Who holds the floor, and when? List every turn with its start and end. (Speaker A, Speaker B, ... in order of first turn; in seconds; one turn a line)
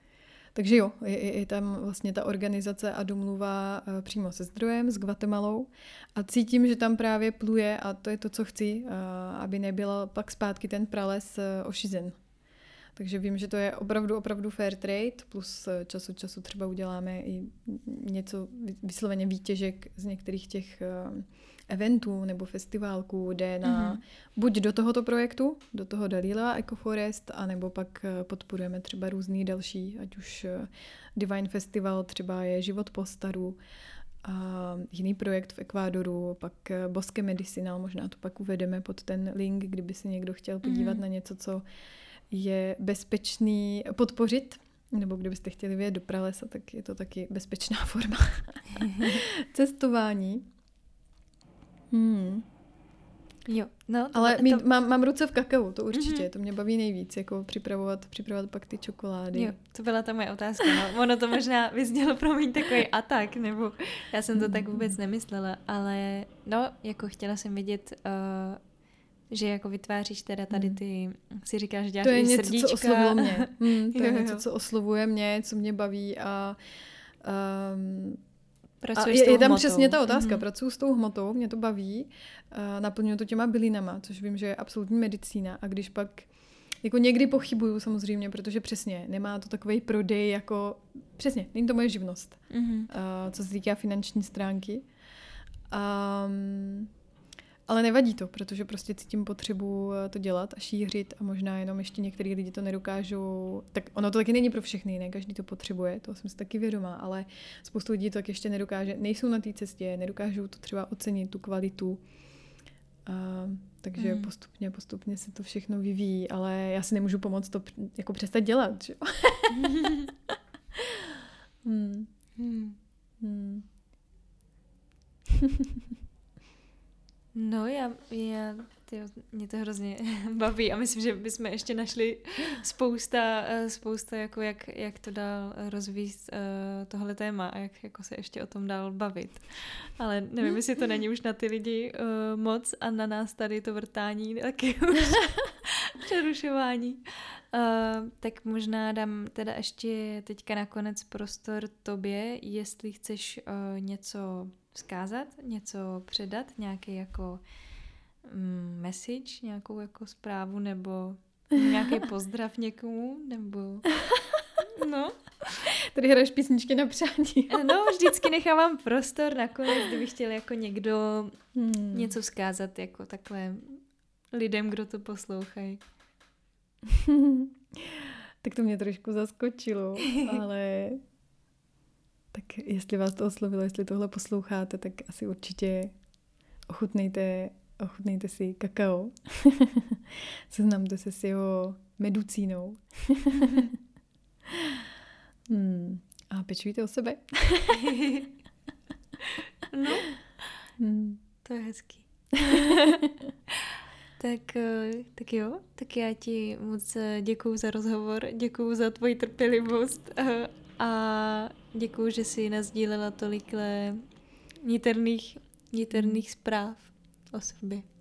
Speaker A: 0.5-12.2
Speaker A: 12.9-33.6
Speaker B: 23.6-24.0
Speaker A: 34.2-41.6
Speaker B: 40.6-41.0
Speaker A: 42.3-50.4
Speaker B: 48.8-49.2
Speaker A: 51.9-52.5
Speaker B: 53.5-54.6
Speaker A: 54.1-59.5
Speaker B: 55.9-56.3
Speaker B: 59.3-68.6
Speaker A: 64.3-65.0
Speaker B: 69.3-74.4
Speaker A: 70.5-70.8
Speaker A: 72.0-76.6
Speaker A: 77.2-78.2
Speaker B: 78.8-80.4
Speaker A: 79.0-86.3
Speaker A: 86.8-94.9
Speaker B: 92.5-92.9
Speaker A: 95.7-96.9
Speaker A: 97.7-112.0
Speaker A: 113.0-120.1
Speaker B: 114.0-114.3
Speaker B: 119.5-120.1
Speaker A: 120.7-122.1
Speaker B: 122.3-122.8
Speaker A: 123.2-123.7
Speaker A: 125.3-125.7
Speaker B: 127.3-157.4
Speaker B: 158.2-163.9
Speaker A: 161.5-162.1
Speaker A: 163.9-164.4
Speaker B: 164.7-165.6
Speaker A: 165.6-167.7
Speaker B: 167.5-171.4
Speaker A: 171.5-172.1
Speaker B: 171.9-175.8
Speaker A: 176.8-181.0
Speaker B: 180.0-180.4
Speaker A: 182.3-185.9
Speaker A: 186.7-193.8
Speaker A: 194.4-194.9
Speaker A: 195.5-197.9
Speaker B: 197.7-198.3
Speaker B: 199.7-200.2
Speaker A: 200.8-201.2
Speaker B: 201.4-214.1
Speaker A: 202.4-203.1
Speaker B: 214.6-217.8
Speaker A: 215.9-216.2